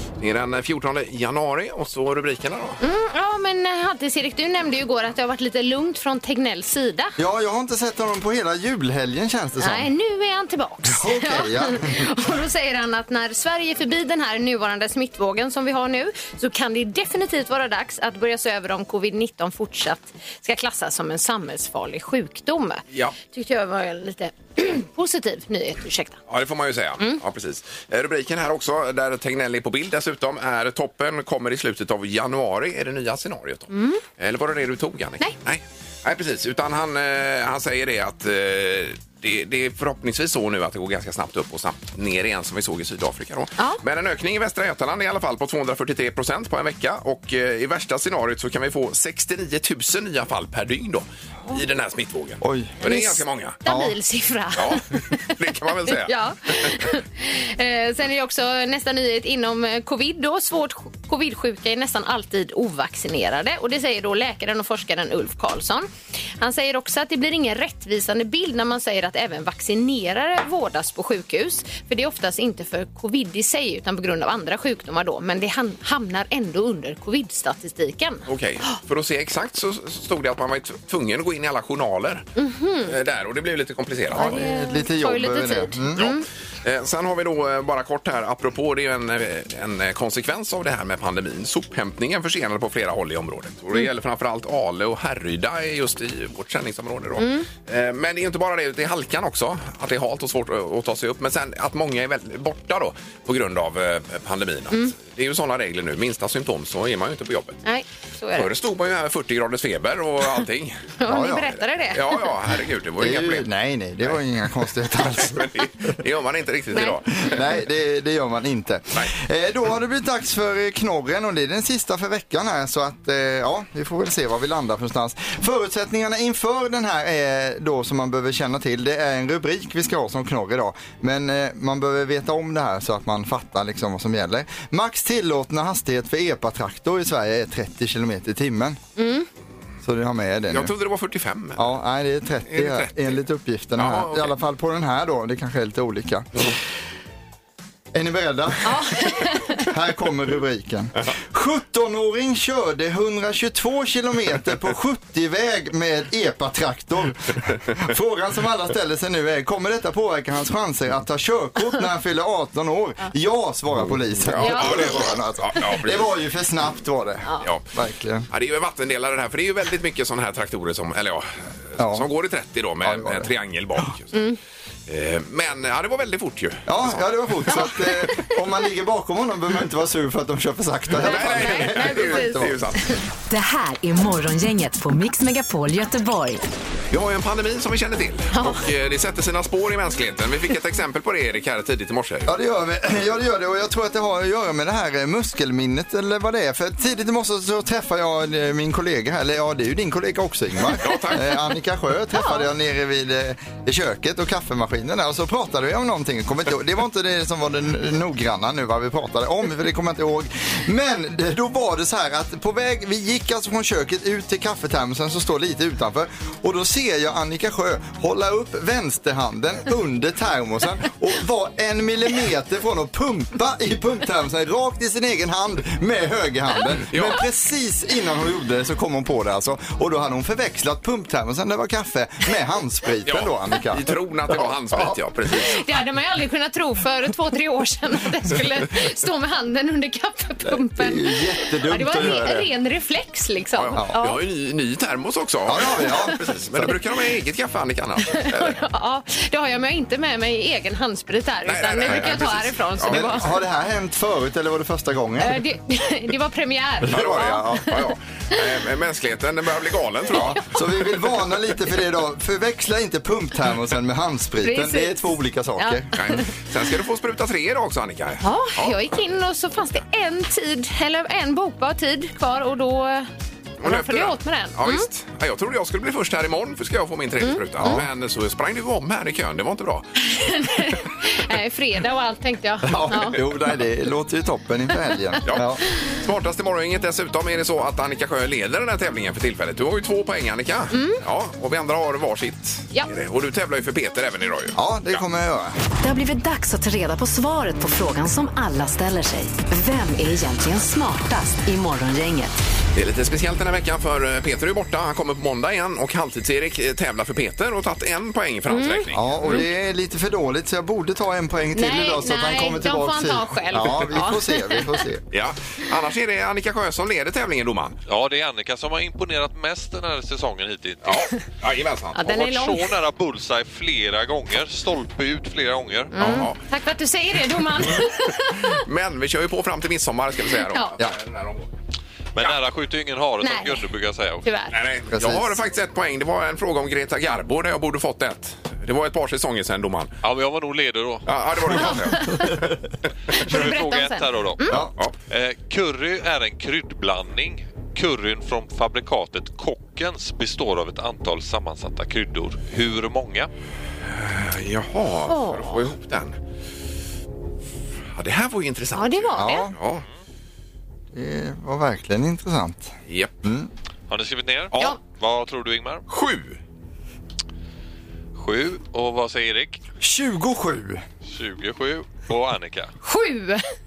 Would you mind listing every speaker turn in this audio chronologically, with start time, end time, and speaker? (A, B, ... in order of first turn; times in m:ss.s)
0:00.2-0:02.8 A
0:02.8-0:07.2 B
0:07.2-0:09.9 C
0:09.6-0:26.2 B
0:10.9-0:12.1 C
0:26.3-0:53.6 A
0:33.7-0:34.0 B
0:52.4-0:52.8 C
0:52.8-0:55.2 B
0:53.7-0:53.9 C
0:54.6-0:56.9 A
0:55.9-1:18.3 B
1:18.3-1:22.3 A
1:22.4-1:23.0 B
1:22.9-1:24.4 A
1:24.1-1:26.1 C
1:24.2-1:26.2 B
1:26.0-1:47.6 A
1:37.2-1:37.5 B
1:47.6-1:48.5 B
1:48.4-1:50.9 A
1:51.0-1:52.3 B
1:51.1-1:51.6 C
1:51.9-1:53.5 A
1:53.0-1:55.7 C
1:55.1-1:57.4 A
1:57.2-2:18.8 C
2:19.0-2:19.3 B
2:19.8-2:20.7 C
2:20.5-2:21.7 A
2:21.6-2:26.5 C
2:22.5-2:23.2 A
2:23.8-2:24.3 A
2:27.9-2:28.8 C
2:28.6-2:29.7 B
2:29.7-2:48.3 C
2:44.2-2:46.1 A
2:44.4-2:45.0 B
2:48.3-2:54.2 A
2:51.8-2:52.1 C
2:52.8-2:53.3 C
2:54.9-2:57.6 A
2:56.7-3:02.6 C
3:01.0-3:02.8 A
3:01.0-3:02.5 B
3:03.3-3:06.4 D
3:06.9-3:12.3 A
3:08.3-3:08.6 B
3:12.3-3:53.9 C
3:20.8-3:21.4 A
3:22.2-3:22.5 B
3:46.9-3:47.2 A
3:53.1-3:55.6 A
3:55.4-4:04.2 B
4:00.4-4:02.5 C
4:03.6-4:08.6 A
4:05.5-4:06.8 C
4:08.1-4:13.3 B
4:11.5-4:13.2 A
4:11.9-4:12.2 C
4:12.9-4:15.4 C
4:15.2-4:17.7 B
4:16.8-4:17.8 C
4:16.9-4:20.6 A
4:20.1-4:25.9 C
4:20.2-4:20.4 B
4:24.4-4:25.0 B
4:25.6-4:26.2 B
4:25.9-4:28.8 A
4:28.2-4:33.1 B
4:33.6-4:39.9 A
4:33.6-4:34.9 B
4:37.2-4:37.8 B
4:37.6-4:37.9 C
4:40.0-4:43.2 B
4:42.6-4:45.6 C
4:45.3-4:55.0 A
4:50.7-4:51.0 B
4:54.6-4:55.6 C
4:55.8-5:02.4 D
5:02.8-5:09.4 A
5:08.5-5:09.4 B
5:08.9-5:15.0 C
5:11.6-5:14.8 B
5:15.1-5:17.8 A
5:17.9-5:21.0 E
5:20.8-5:22.0 A
5:22.0-5:22.7 B
5:22.0-5:25.9 E
5:25.9-5:28.6 B
5:26.0-5:26.4 A
5:28.5-5:31.5 A
5:30.5-5:30.8 B
5:32.2-5:34.3 E
5:33.2-5:33.6 B
5:34.2-5:34.5 B
5:34.5-5:40.0 A
5:34.9-5:35.4 C
5:40.0-5:41.6 E
5:41.1-5:42.2 A
5:41.6-5:42.3 B
5:43.1-5:44.6 B
5:43.1-5:53.3 E
5:53.9-5:56.2 A
5:55.1-5:55.6 B
5:58.0-5:59.8 A
5:58.8-5:59.5 B
5:59.2-5:59.6 C
6:00.9-6:03.5 C
6:03.9-6:05.8 E
6:05.9-6:06.4 A
6:08.2-6:09.6 E
6:09.8-6:10.8 C
6:11.1-6:12.7 E
6:12.8-6:13.5 B